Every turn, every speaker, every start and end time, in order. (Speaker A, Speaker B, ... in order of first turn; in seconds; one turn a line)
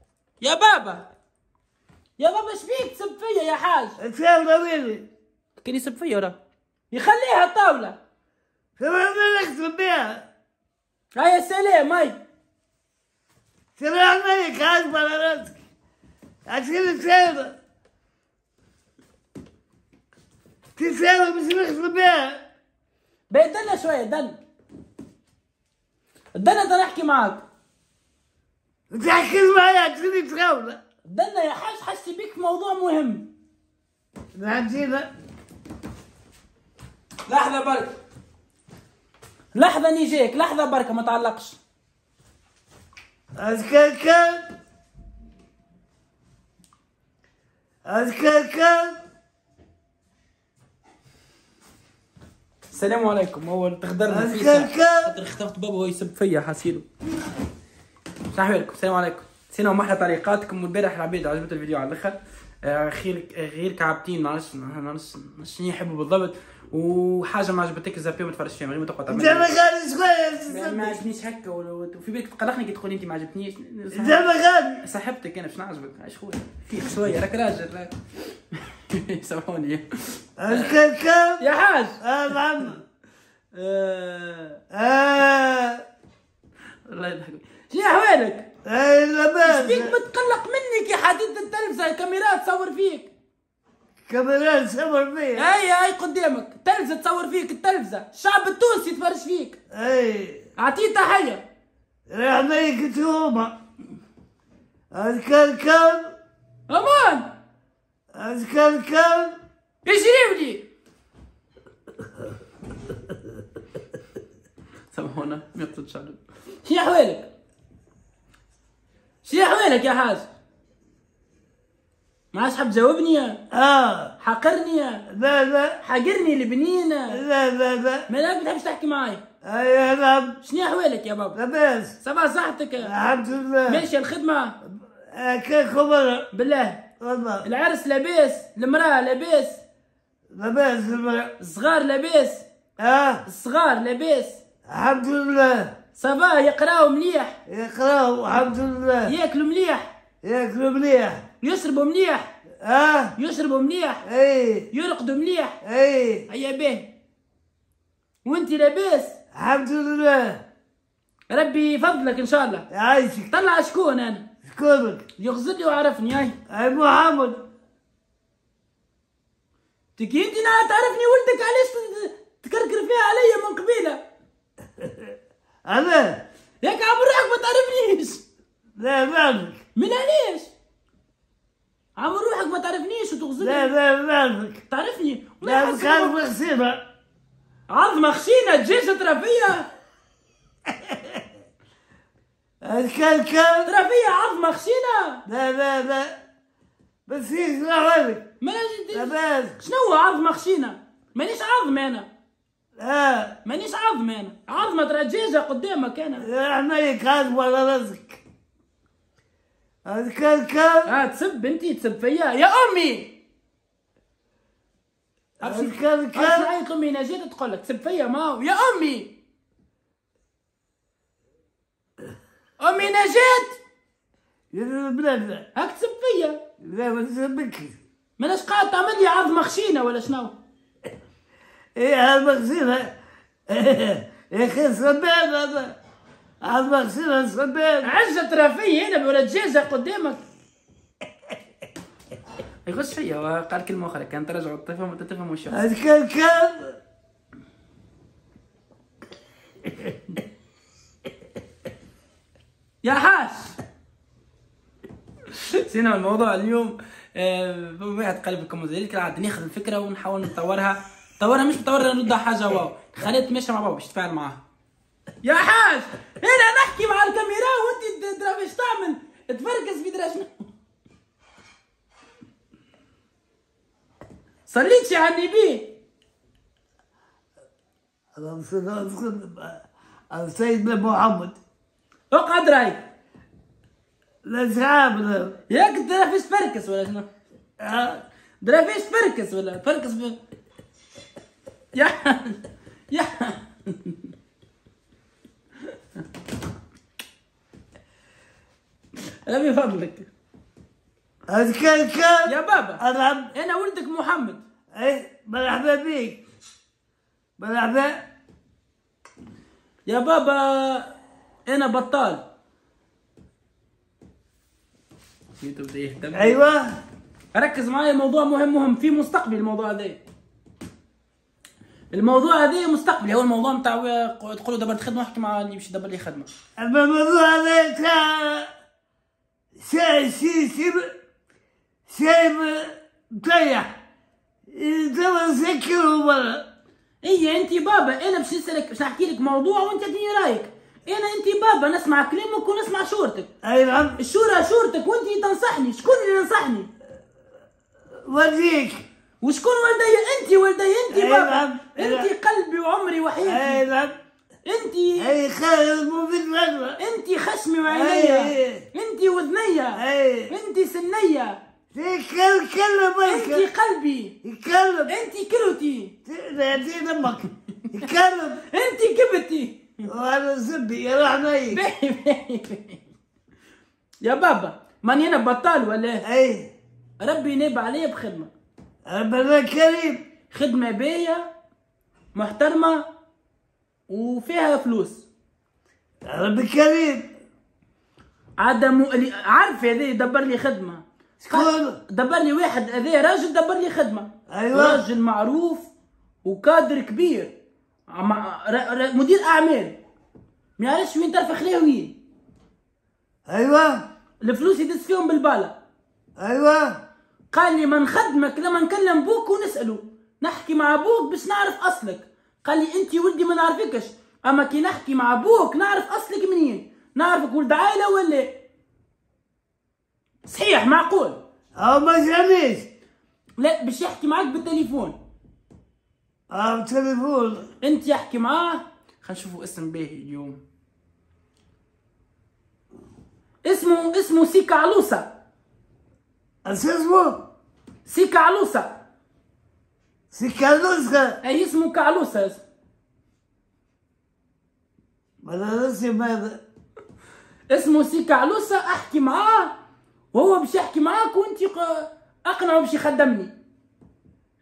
Speaker A: 0.4-1.1
Speaker A: 2.2-4.0
Speaker B: 4.0-5.1
Speaker A: 5.6-6.4
Speaker A: 6.9-8.0
Speaker B: 8.8-10.3
Speaker A: 11.1-12.2
Speaker B: 13.8-15.6
Speaker B: 16.5-17.6
Speaker B: 20.8-22.4
Speaker A: 23.3-24.4
Speaker A: 26.4-27.4
Speaker B: 28.9-30.8
Speaker A: 31.1-33.3
Speaker B: 34.4-35.1
Speaker A: 37.3-38.0
Speaker A: 39.5-41.6
Speaker B: 43.4-44.4
Speaker B: 47.9-49.0
Speaker A: 52.7-56.9
Speaker B: 54.1-55.2
Speaker A: 58.3-69.5
Speaker B: 69.1-71.0
Speaker A: 70.5-74.2
Speaker B: 73.9-74.8
Speaker A: 74.8-77.9
Speaker A: 78.5-80.8
Speaker B: 80.4-81.4
Speaker A: 81.4-82.0
Speaker B: 82.0-82.8
Speaker A: 83.5-84.6
Speaker B: 84.7-85.8
Speaker A: 86.9-88.5
Speaker B: 88.7-90.0
Speaker A: 89.5-93.1
Speaker B: 94.1-95.6
Speaker A: 95.4-99.6
Speaker B: 99.7-100.5
Speaker A: 100.6-101.4
Speaker B: 102.1-103.6
Speaker B: 104.9-106.1
Speaker A: 106.7-107.3
Speaker B: 108.1-109.3
Speaker A: 109.8-110.7
Speaker A: 114.9-117.3
Speaker A: 119.2-120.3
Speaker A: 122.3-123.4
Speaker B: 123.5-124.1
Speaker A: 124.2-125.1
Speaker B: 125.1-125.8
Speaker A: 125.8-127.2
Speaker B: 127.1-128.1
Speaker A: 128.1-129.2
Speaker B: 129.4-130.4
Speaker A: 130.4-131.4
Speaker B: 131.3-132.0
Speaker A: 132.0-132.9
Speaker B: 132.8-133.8
Speaker A: 133.7-134.6
Speaker B: 134.6-136.3
Speaker A: 136.3-136.8
Speaker B: 137.0-137.5
Speaker A: 137.4-139.6
Speaker B: 140.3-141.3
Speaker A: 141.4-142.4
Speaker B: 142.8-143.2
Speaker A: 143.3-144.4
Speaker B: 144.7-145.7
Speaker A: 146.0-147.4
Speaker B: 147.5-149.1
Speaker A: 149.1-149.9
Speaker B: 150.2-151.2
Speaker A: 151.4-152.3
Speaker B: 152.6-153.2
Speaker A: 153.2-154.0
Speaker B: 154.1-154.7
Speaker A: 154.7-155.6
Speaker B: 155.6-156.3
Speaker A: 156.3-156.9
Speaker A: 158.2-159.2
Speaker B: 159.3-160.4
Speaker A: 161.3-162.7
Speaker B: 162.7-163.3
Speaker A: 163.3-164.2
Speaker B: 164.5-165.1
Speaker A: 165.2-166.4
Speaker B: 166.5-167.4
Speaker A: 170.0-174.0
Speaker B: 174.8-175.1
Speaker B: 175.7-176.2
Speaker A: 176.6-178.2
Speaker B: 178.8-179.6
Speaker A: 179.8-180.5
Speaker A: 182.0-183.7
Speaker B: 183.4-184.6
Speaker A: 184.7-186.1
Speaker B: 185.4-186.8
Speaker A: 187.7-189.7
Speaker B: 190.9-191.1
Speaker B: 192.6-193.7
Speaker A: 193.7-195.2
Speaker B: 195.3-196.2
Speaker B: 197.1-198.3
Speaker A: 198.4-202.1
Speaker B: 198.9-199.6
Speaker B: 202.8-203.4
Speaker A: 203.4-206.3
Speaker B: 206.2-208.2
Speaker B: 209.8-210.9
Speaker A: 210.9-213.2
Speaker A: 215.4-219.1
Speaker B: 215.4-216.5
Speaker A: 222.6-223.6
Speaker B: 224.5-225.5
Speaker A: 225.6-226.4
Speaker B: 226.6-227.8
Speaker A: 228.2-230.3
Speaker B: 231.8-232.9
Speaker B: 233.5-235.8
Speaker B: 236.4-237.9
Speaker A: 237.8-240.2
Speaker A: 242.7-245.7
Speaker B: 245.5-246.7
Speaker A: 252.8-253.6
Speaker A: 255.3-264.4
Speaker A: 265.2-270.3
Speaker A: 274.5-275.7
Speaker B: 278.2-281.4
Speaker A: 282.1-282.9
Speaker B: 284.2-285.4
Speaker A: 285.5-287.1
Speaker B: 287.6-288.0
Speaker A: 288.4-290.2
Speaker A: 291.8-292.4
Speaker A: 292.9-294.0
Speaker A: 299.3-300.1
Speaker B: 301.3-303.3
Speaker A: 302.3-302.8
Speaker A: 303.3-304.4
Speaker B: 304.7-306.2
Speaker B: 307.4-308.1
Speaker A: 309.9-310.9
Speaker A: 311.5-312.2
Speaker A: 315.4-316.4
Speaker B: 316.1-316.8
Speaker A: 317.3-320.0
Speaker A: 321.9-326.3
Speaker B: 326.6-328.5
Speaker B: 329.6-330.9
Speaker B: 331.9-333.7
Speaker B: 334.5-336.4
Speaker A: 337.0-343.3
Speaker B: 343.4-344.0
Speaker A: 344.0-346.7
Speaker B: 348.1-348.8
Speaker A: 349.2-353.6
Speaker B: 350.9-352.1
Speaker B: 353.2-353.9
Speaker A: 354.4-355.1
Speaker B: 355.0-356.8
Speaker A: 356.8-361.4
Speaker B: 357.7-358.7
Speaker B: 359.8-360.3
Speaker B: 361.7-363.5
Speaker A: 363.1-364.1
Speaker B: 364.2-364.9
Speaker A: 364.9-365.9
Speaker B: 366.1-368.4
Speaker A: 368.5-369.7
Speaker B: 369.9-371.6
Speaker A: 371.5-372.8
Speaker A: 374.0-376.1
Speaker B: 376.0-376.5
Speaker A: 377.0-378.3
Speaker B: 378.9-380.0
Speaker A: 380.3-381.2
Speaker A: 382.1-382.8
Speaker A: 383.9-385.1
Speaker B: 386.1-387.1
Speaker A: 388.4-395.7
Speaker B: 391.2-391.8
Speaker B: 394.3-394.8
Speaker A: 396.2-397.3
Speaker A: 397.9-399.8
Speaker A: 400.6-402.0
Speaker B: 403.3-403.8
Speaker A: 404.2-405.6
Speaker B: 406.2-406.8
Speaker A: 407.3-418.3
Speaker A: 420.2-421.2
Speaker B: 421.6-422.7
Speaker A: 423.4-425.0
Speaker B: 426.3-427.5
Speaker A: 427.6-430.4
Speaker A: 433.4-435.1
Speaker B: 436.4-437.2
Speaker A: 437.9-438.8
Speaker B: 440.1-441.2
Speaker A: 441.2-442.4
Speaker B: 445.2-446.4
Speaker A: 447.5-449.5
Speaker A: 450.1-453.3